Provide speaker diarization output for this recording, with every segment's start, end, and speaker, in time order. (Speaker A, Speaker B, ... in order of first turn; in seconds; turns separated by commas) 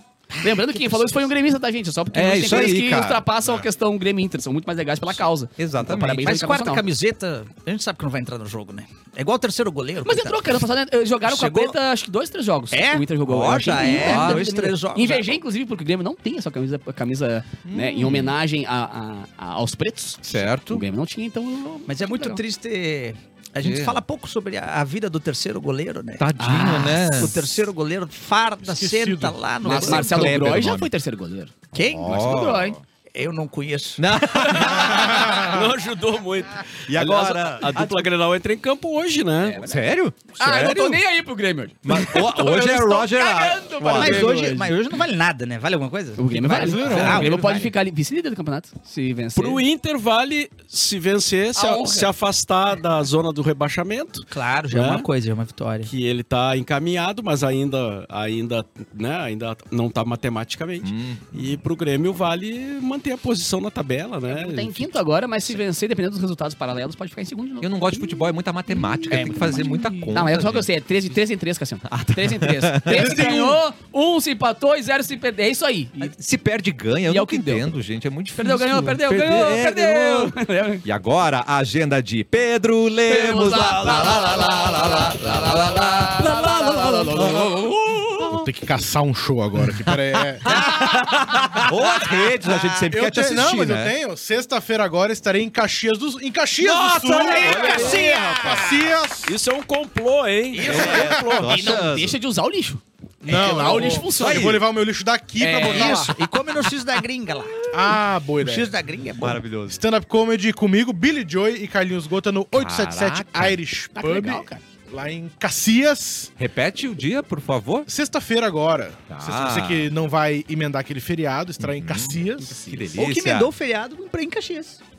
Speaker A: 0.3-1.3, Speaker B: 0.4-6.8, Speaker C: 2.1-3.2, Speaker D: 3.4-3.7, Speaker C: 5.6-6.3, Speaker A: 5.8-10.6, Speaker B: 10.0-22.4, Speaker A: 11.2-11.8, Speaker A: 12.7-15.4, Speaker C: 13.3-14.4, Speaker C: 17.7-18.4, Speaker C: 20.2-20.8, Speaker A: 21.9-30.5, Speaker C: 23.6-24.0, Speaker C: 26.2-27.4, Speaker B: 26.4-27.1, Speaker D: 28.6-29.4, Speaker C: 29.6-30.9, Speaker B: 29.6-31.5, Speaker A: 31.7-32.6, Speaker C: 31.8-32.8, Speaker B: 32.1-32.8, Speaker A: 33.1-35.3, Speaker C: 34.0-35.6, Speaker E: 35.3-39.6, Speaker C: 36.9-38.1, Speaker B: 39.4-39.8, Speaker C: 39.6-41.0, Speaker B: 40.4-44.7, Speaker C: 41.8-44.3, Speaker D: 42.3-43.0, Speaker A: 43.9-47.7, Speaker B: 46.1-49.6, Speaker D: 46.6-47.3, Speaker E: 49.4-55.1, Speaker B: 51.5-52.1, Speaker A: 54.3-55.9, Speaker E: 55.8-64.9, Speaker C: 60.8-61.2, Speaker B: 64.3-68.2, Speaker C: 67.6-70.7, Speaker B: 68.8-69.6, Speaker A: 69.1-70.1, Speaker B: 70.1-76.1, Speaker C: 71.9-73.4, Speaker D: 72.9-73.6, Speaker C: 76.0-88.5, Speaker B: 77.0-77.7, Speaker B: 78.3-80.8, Speaker B: 83.1-88.2, Speaker D: 88.3-90.6, Speaker C: 90.4-93.9, Speaker A: 90.5-93.0, Speaker D: 92.9-99.3, Speaker C: 96.6-98.5, Speaker A: 97.1-99.0, Speaker E: 97.4-98.0, Speaker E: 99.2-101.0, Speaker A: 100.5-101.8, Speaker C: 100.6-102.2, Speaker D: 100.8-101.6, Speaker B: 101.2-104.6, Speaker D: 103.2-106.2, Speaker C: 104.1-104.7, Speaker B: 105.4-106.1, Speaker A: 105.5-109.4, Speaker D: 107.7-108.7, Speaker C: 109.2-109.8, Speaker D: 109.7-116.3, Speaker C: 112.5-113.6, Speaker B: 113.9-114.6, Speaker C: 116.4-117.9, Speaker D: 117.9-122.6, Speaker C: 119.1-119.9, Speaker C: 121.6-123.5, Speaker B: 122.4-123.1, Speaker A: 123.0-124.8